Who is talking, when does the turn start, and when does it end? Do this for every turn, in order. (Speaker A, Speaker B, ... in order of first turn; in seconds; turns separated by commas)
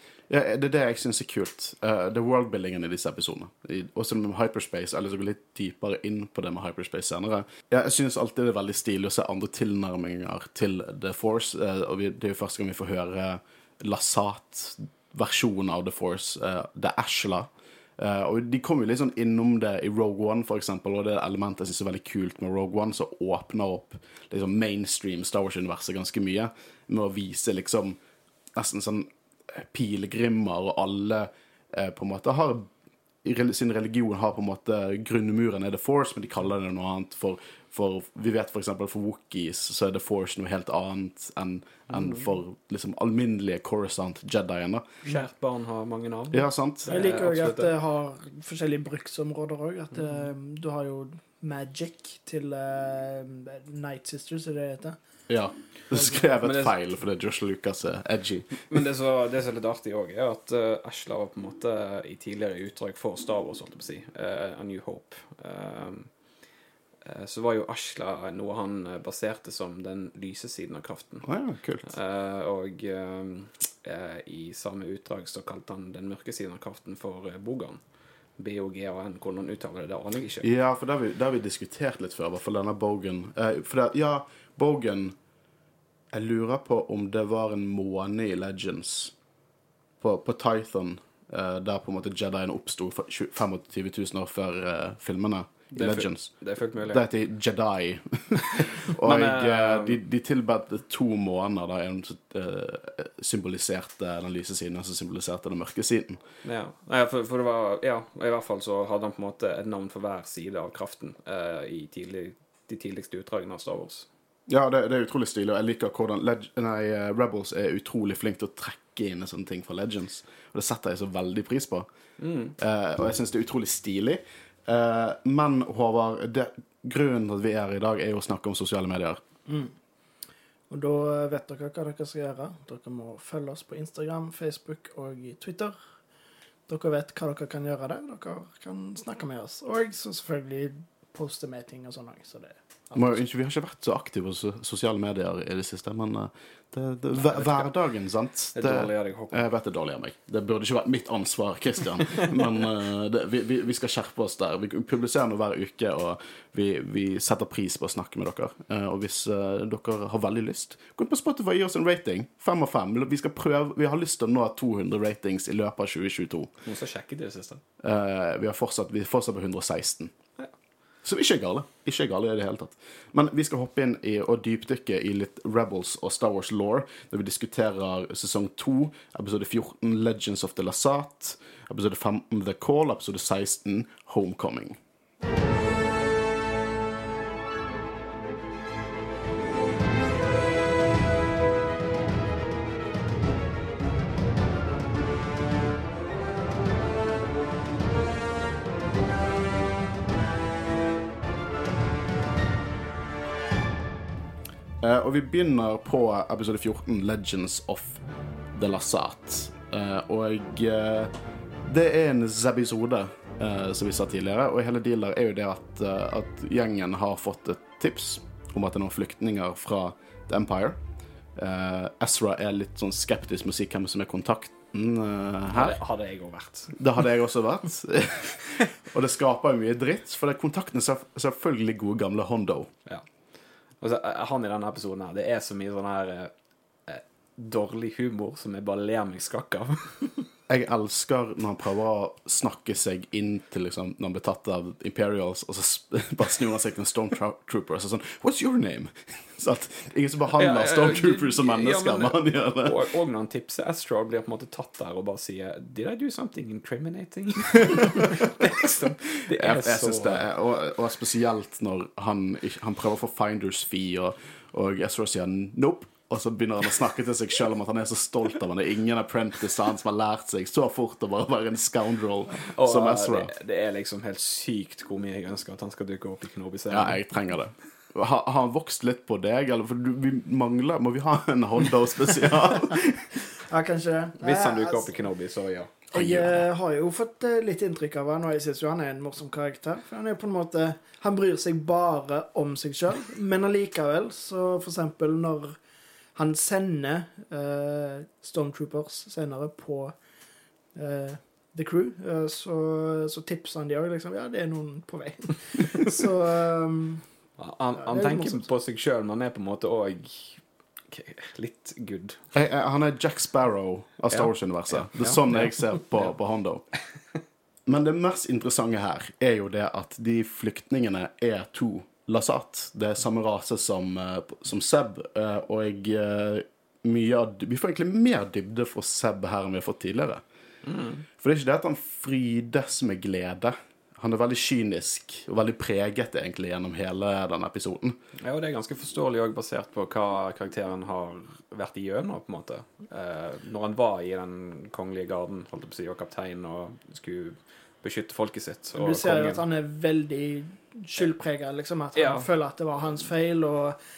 Speaker A: 0.3-28.0, Speaker A: 28.5-32.7, Speaker A: 33.2-44.9, Speaker B: 41.9-42.3, Speaker B: 45.1-47.7, Speaker A: 46.3-46.9, Speaker C: 46.9-55.0, Speaker A: 55.3-58.7, Speaker B: 56.0-56.7, Speaker B: 58.7-66.1, Speaker B: 67.0-71.3, Speaker A: 71.2-71.9, Speaker B: 71.8-77.8, Speaker B: 78.4-80.5, Speaker A: 80.4-85.2, Speaker A: 86.1-89.1, Speaker A: 90.0-96.3, Speaker B: 95.7-97.0, Speaker A: 96.9-106.2, Speaker B: 98.6-100.0, Speaker B: 106.4-114.1, Speaker A: 114.5-121.9, Speaker B: 122.2-122.5, Speaker A: 122.6-129.2, Speaker C: 129.5-129.7, Speaker C: 130.7-135.8, Speaker C: 136.7-143.1, Speaker A: 142.9-166.5, Speaker B: 147.1-147.7, Speaker B: 148.6-149.5, Speaker B: 166.7-167.6, Speaker A: 167.8-170.1, Speaker A: 171.0-184.8, Speaker A: 204.8-208.0, Speaker A: 208.6-211.1, Speaker A: 211.7-220.8, Speaker A: 221.4-225.8, Speaker B: 225.5-226.8, Speaker A: 226.8-232.7, Speaker B: 233.8-236.3, Speaker B: 236.9-240.3, Speaker A: 240.5-252.8, Speaker B: 250.3-260.3, Speaker A: 257.6-258.5, Speaker A: 259.3-273.3, Speaker B: 272.4-277.0, Speaker A: 276.7-283.1, Speaker C: 283.4-285.0, Speaker B: 284.2-285.8, Speaker C: 285.9-295.6, Speaker A: 285.9-286.4, Speaker C: 296.2-300.0, Speaker C: 300.8-307.1, Speaker B: 307.4-312.2, Speaker C: 307.8-308.4, Speaker A: 312.3-316.6, Speaker B: 314.1-316.0, Speaker A: 317.7-330.2, Speaker B: 330.6-331.1, Speaker A: 331.2-338.0, Speaker B: 338.2-349.4, Speaker C: 348.8-353.8, Speaker B: 351.9-352.3